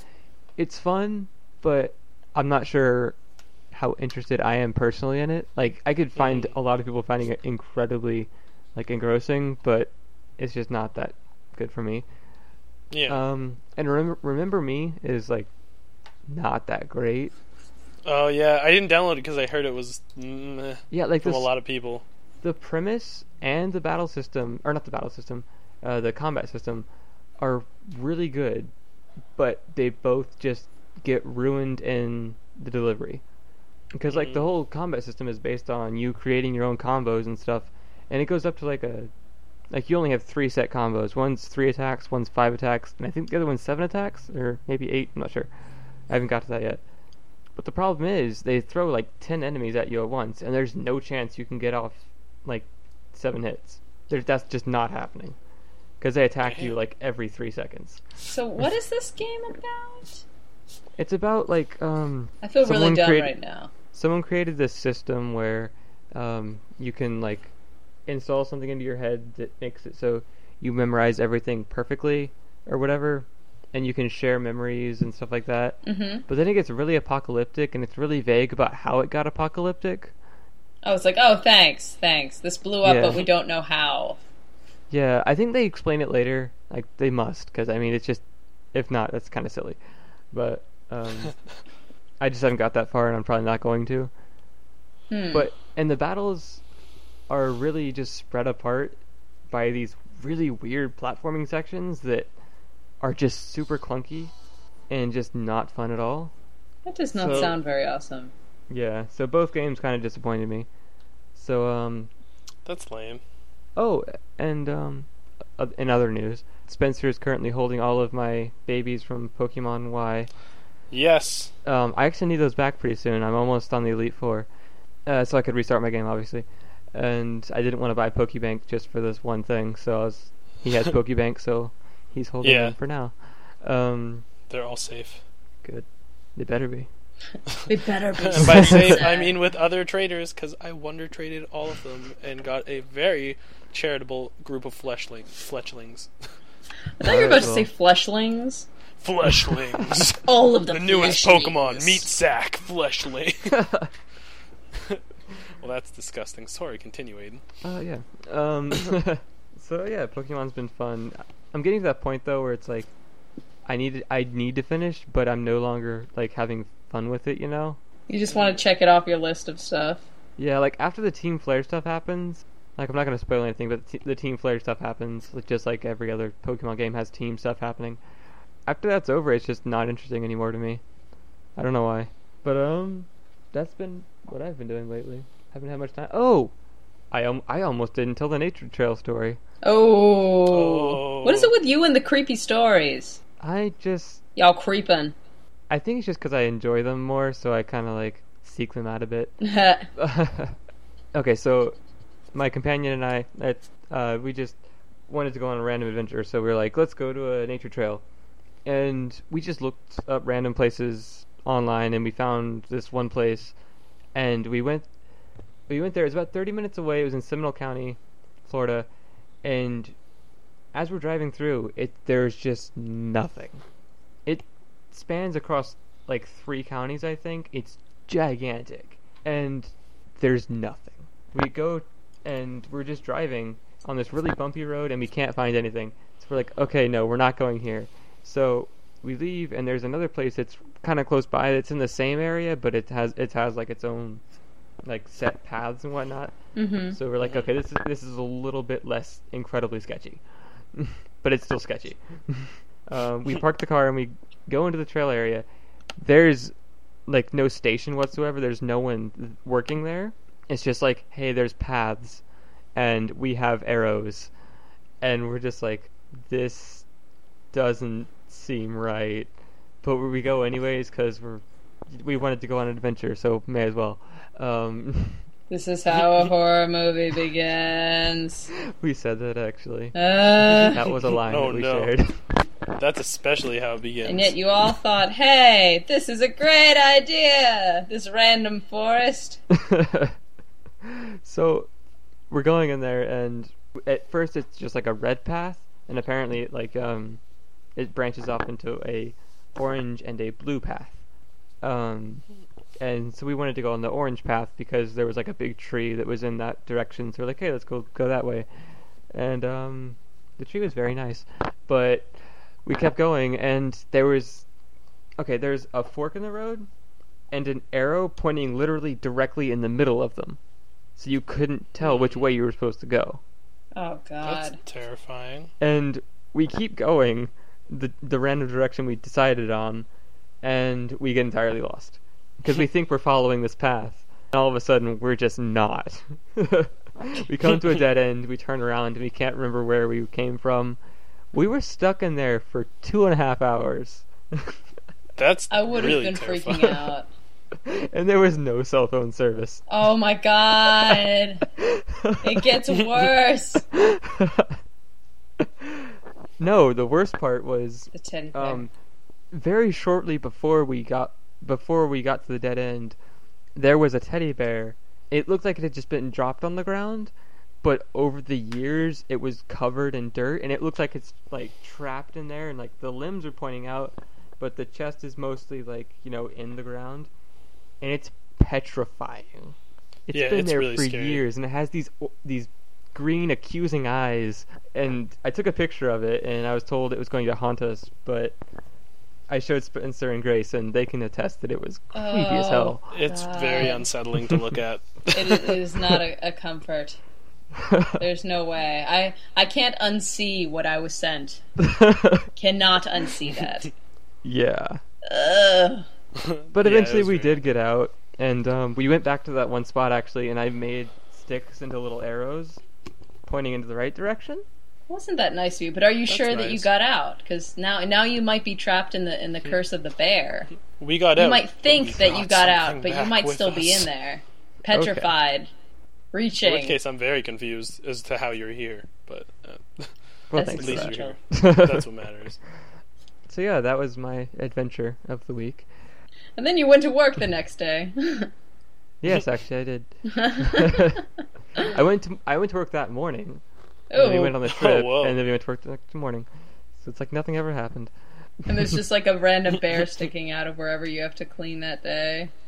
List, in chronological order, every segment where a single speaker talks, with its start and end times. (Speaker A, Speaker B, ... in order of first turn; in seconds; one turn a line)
Speaker A: 0.6-3.1
Speaker A: 3.7-12.0
Speaker B: 6.2-6.5
Speaker B: 12.9-13.2
Speaker A: 13.1-15.5
Speaker A: 16.3-17.3
Speaker B: 18.0-22.0
Speaker A: 20.9-21.5
Speaker A: 22.4-26.9
Speaker A: 27.4-28.7
Speaker A: 29.4-33.2
Speaker A: 33.9-39.1
Speaker B: 34.1-34.5
Speaker A: 39.7-45.5
Speaker A: 46.1-46.8
Speaker A: 47.5-55.4
Speaker A: 56.0-58.0
Speaker B: 56.4-56.7
Speaker C: 58.2-60.2
Speaker A: 61.0-63.3
Speaker C: 62.4-63.7
Speaker A: 63.9-67.5
Speaker A: 68.1-80.1
Speaker C: 75.8-76.2
Speaker C: 80.8-84.2
Speaker A: 82.8-83.2
Speaker A: 84.9-89.8
Speaker A: 90.3-91.3
Speaker A: 92.2-94.1
Speaker C: 95.1-95.5
Speaker A: 95.3-96.6
Speaker A: 97.3-99.0
Speaker A: 99.5-102.3
Speaker A: 103.0-104.3
Speaker A: 104.9-106.3
Speaker C: 106.8-108.3
Speaker A: 107.2-107.5
Speaker B: 107.2-107.5
Speaker A: 108.7-110.7
Speaker A: 111.3-112.1
Speaker B: 112.7-113.2
Speaker A: 113.8-120.3
Speaker B: 120.9-121.5
Speaker A: 121.6-124.5
Speaker A: 125.0-134.3
Speaker B: 132.4-132.8
Speaker B: 134.5-135.2
Speaker A: 135.6-136.9
Speaker C: 137.7-139.3
Speaker B: 138.2-146.1
Speaker A: 138.4-139.0
Speaker C: 147.0-148.7
Speaker A: 147.0-147.7
Speaker B: 149.0-153.6
Speaker C: 150.2-152.0
Speaker A: 153.5-153.9
Speaker B: 155.6-157.4
Speaker A: 157.6-162.9
Speaker A: 163.7-167.8
Speaker C: 168.1-170.0
Speaker B: 168.3-168.6
Speaker A: 170.4-178.0
Speaker A: 178.7-180.8
Speaker A: 181.6-186.5
Speaker A: 187.1-189.4
Speaker C: 189.6-193.2
Speaker B: 190.5-191.5
Speaker A: 193.4-194.2
Speaker C: 194.3-195.1
Speaker A: 195.7-199.4
Speaker C: 199.4-199.9
Speaker A: 199.9-200.6
Speaker A: 201.1-201.8
Speaker A: 202.3-208.0
Speaker A: 208.6-213.5
Speaker A: 214.1-214.9
Speaker A: 215.7-218.9
Speaker A: 219.4-219.9
Speaker A: 220.7-223.6
Speaker A: 224.2-244.2
Speaker A: 244.8-246.3
Speaker C: 246.6-247.0
Speaker A: 246.9-250.2
Speaker B: 247.2-247.5
Speaker A: 250.7-255.4
Speaker A: 256.0-256.5
Speaker A: 257.1-262.2
Speaker A: 262.7-264.3
Speaker A: 265.0-266.9
Speaker A: 267.5-269.3
Speaker A: 269.8-275.2
Speaker C: 275.5-278.5
Speaker B: 276.0-276.3
Speaker A: 278.6-279.9
Speaker C: 279.9-280.8
Speaker A: 280.6-282.1
Speaker B: 281.1-281.9
Speaker B: 282.8-284.3
Speaker C: 284.0-289.4
Speaker A: 289.5-290.1
Speaker A: 290.8-291.7
Speaker A: 292.3-297.2
Speaker A: 297.8-301.0
Speaker A: 301.6-302.2
Speaker A: 302.8-308.5
Speaker A: 309.1-312.1
Speaker A: 312.6-314.4
Speaker A: 315.2-316.7
Speaker A: 317.3-320.4
Speaker A: 320.9-323.2
Speaker B: 321.8-322.2
Speaker C: 323.8-324.6
Speaker B: 324.2-325.5
Speaker A: 325.6-329.9
Speaker A: 330.4-340.8
Speaker A: 341.3-344.6
Speaker B: 345.2-346.9
Speaker C: 345.5-347.1
Speaker A: 347.6-349.6
Speaker C: 349.7-351.4
Speaker A: 351.6-352.6
Speaker C: 352.2-353.6
Speaker A: 353.7-354.6
Speaker A: 355.4-358.7
Speaker C: 357.9-358.6
Speaker A: 359.3-362.9
Speaker A: 363.6-367.1
Speaker A: 367.6-377.1
Speaker A: 377.8-379.5
Speaker A: 380.1-388.4
Speaker B: 380.1-381.2
Speaker A: 389.3-392.8
Speaker C: 391.9-393.9
Speaker B: 392.9-395.6
Speaker C: 395.1-397.0
Speaker A: 397.5-398.0
Speaker C: 398.0-401.4
Speaker A: 401.6-402.3
Speaker C: 402.4-403.7
Speaker A: 404.2-404.8
Speaker C: 405.1-405.9
Speaker B: 406.1-407.4
Speaker A: 406.5-412.6
Speaker A: 413.2-414.4
Speaker C: 414.9-420.5
Speaker B: 416.1-416.7
Speaker B: 420.8-423.9
Speaker C: 421.2-425.5
Speaker A: 424.7-425.1
Speaker C: 426.1-426.8
Speaker B: 426.4-432.4
Speaker A: 430.3-431.9
Speaker C: 430.4-431.1
Speaker A: 433.3-435.7
Speaker C: 436.4-438.3
Speaker A: 439.0-441.0
Speaker C: 440.1-441.0
Speaker A: 441.6-443.4
Speaker C: 443.9-444.4
Speaker A: 443.9-446.3
Speaker B: 444.4-445.2
Speaker A: 446.8-447.9
Speaker C: 448.5-452.3